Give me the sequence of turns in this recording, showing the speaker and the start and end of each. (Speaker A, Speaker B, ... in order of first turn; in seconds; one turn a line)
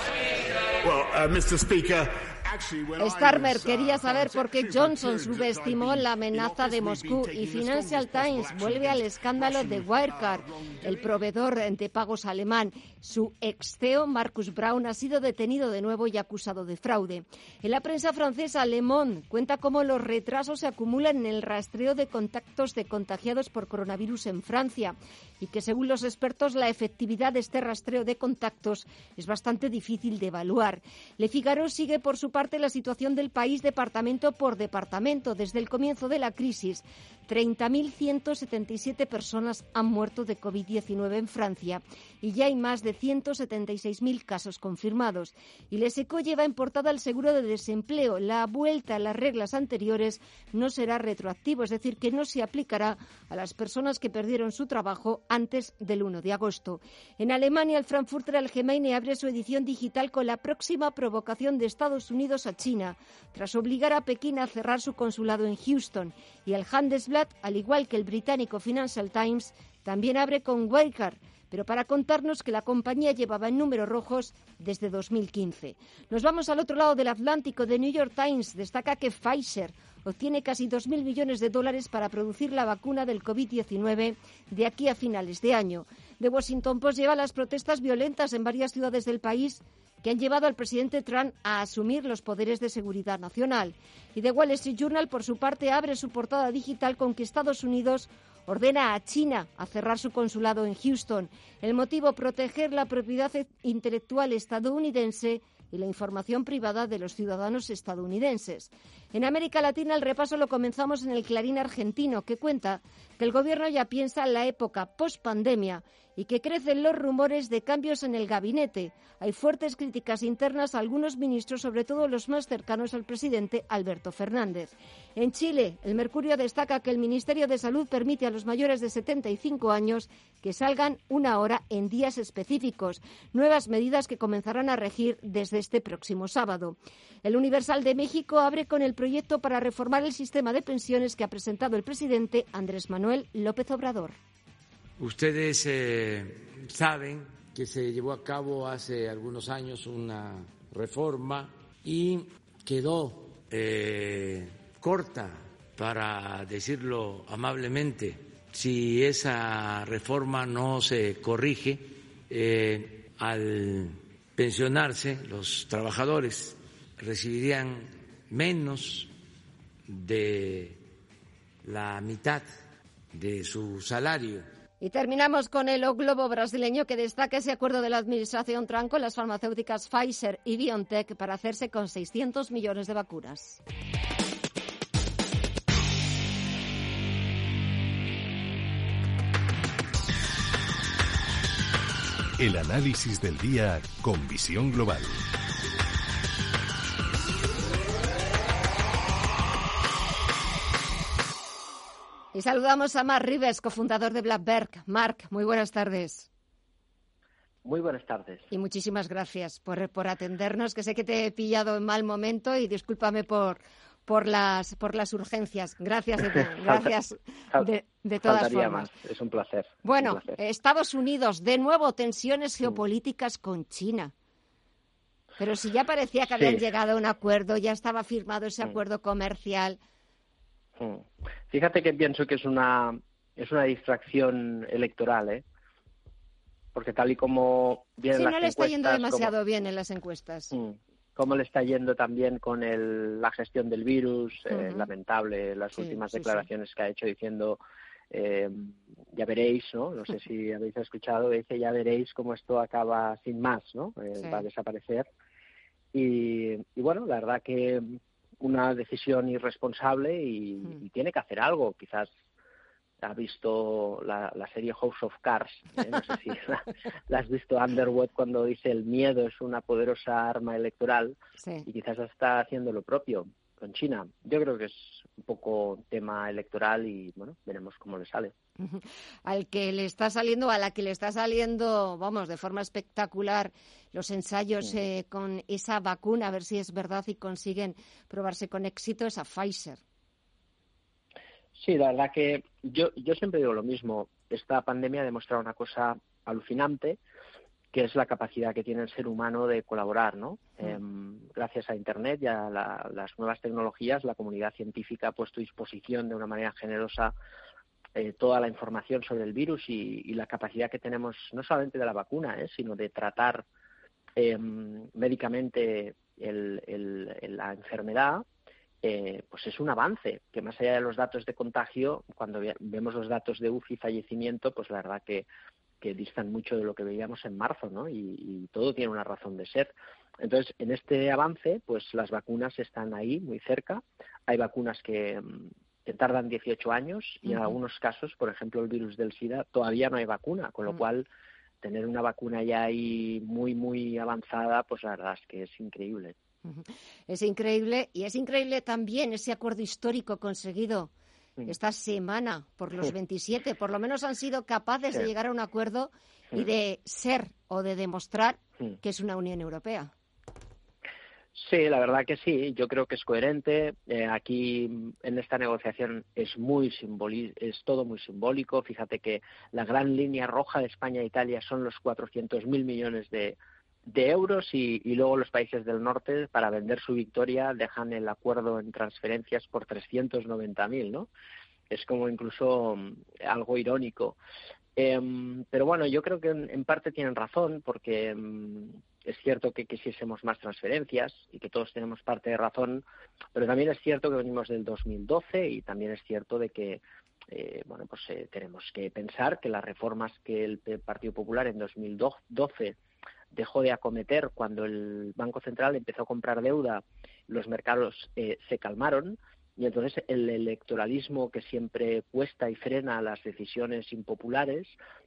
Speaker A: 0.8-5.8
Speaker B: 3.0-144.2
Speaker A: 6.5-8.7
Speaker C: 145.0-169.1
Speaker C: 169.9-170.8
Speaker C: 171.6-172.4
Speaker C: 173.1-174.4
Speaker B: 174.8-183.6
Speaker D: 192.4-195.2
Speaker B: 202.3-206.3
Speaker E: 207.6-208.5
Speaker B: 208.5-218.9
Speaker E: 216.3-216.9
Speaker E: 218.2-220.3
Speaker B: 219.8-224.1
Speaker B: 225.4-229.8
Speaker E: 226.3-226.6
Speaker E: 230.8-235.4
Speaker E: 236.7-239.3
Speaker B: 238.1-240.5
Speaker E: 240.5-247.6
Speaker B: 244.5-244.9
Speaker B: 245.7-246.4
Speaker E: 248.1-255.1
Speaker B: 254.1-254.4
Speaker E: 255.9-262.1
Speaker E: 263.0-278.3
Speaker B: 271.4-271.7
Speaker B: 278.6-289.8
Speaker E: 291.6-297.0
Speaker E: 297.7-307.1
Speaker E: 307.9-313.4
Speaker E: 314.2-318.2
Speaker E: 318.8-325.3
Speaker E: 325.8-341.1
Speaker E: 341.6-346.1
Speaker B: 346.4-350.9
Speaker B: 351.4-359.9
Speaker E: 361.3-381.1
Speaker E: 381.7-384.2
Speaker E: 384.8-392.8
Speaker E: 393.3-402.8
Speaker E: 403.3-414.8